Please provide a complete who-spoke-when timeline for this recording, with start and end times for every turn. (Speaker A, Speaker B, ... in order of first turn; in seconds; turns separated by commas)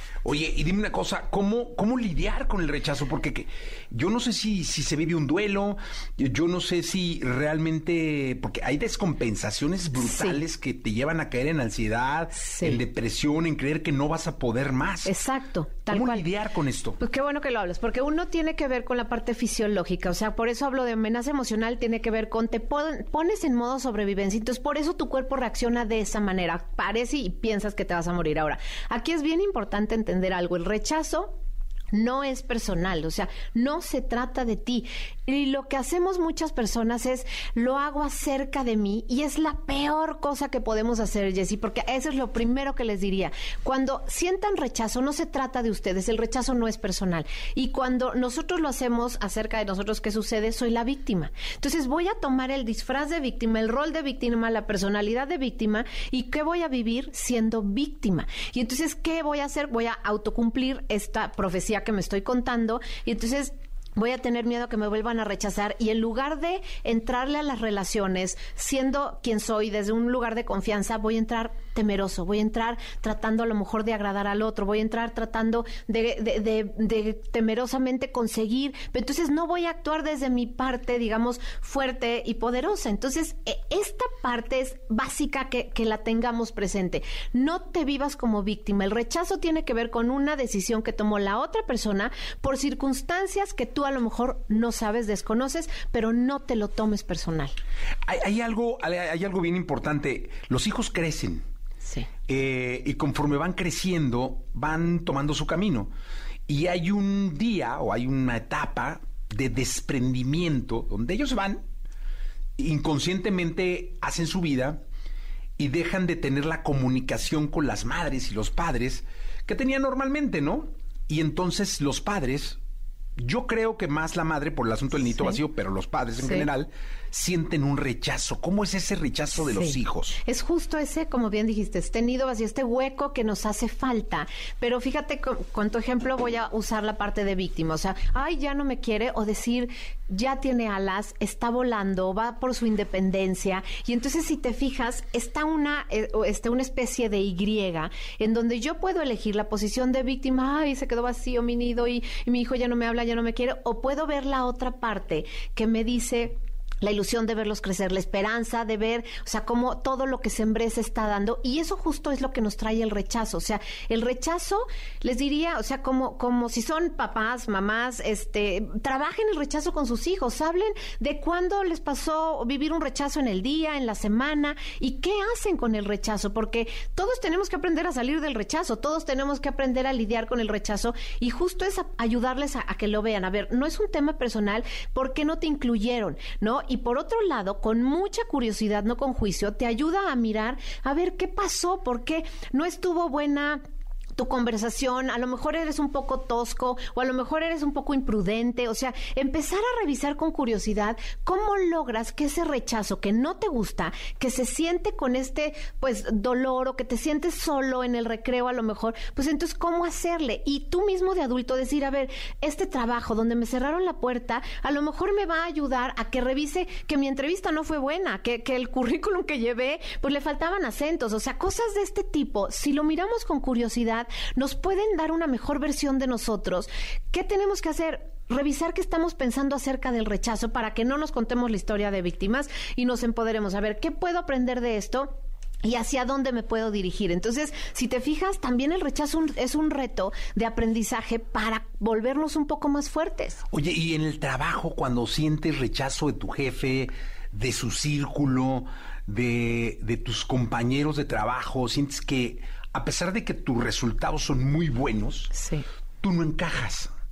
Speaker A: 0.2-15.1, Speaker B: 10.0-10.4, Speaker B: 12.3-12.8, Speaker B: 15.1-16.3, Speaker A: 15.9-17.0, Speaker B: 17.0-31.4, Speaker B: 31.9-97.5, Speaker A: 98.1-101.5, Speaker B: 101.8-102.1, Speaker A: 102.3-105.9, Speaker A: 106.5-111.6, Speaker A: 112.6-114.8, Speaker A: 115.6-122.6, Speaker A: 123.2-130.2, Speaker B: 126.2-126.5, Speaker B: 129.4-193.6, Speaker B: 194.2-243.4, Speaker A: 243.5-255.3, Speaker B: 255.3-255.7, Speaker A: 256.0-256.9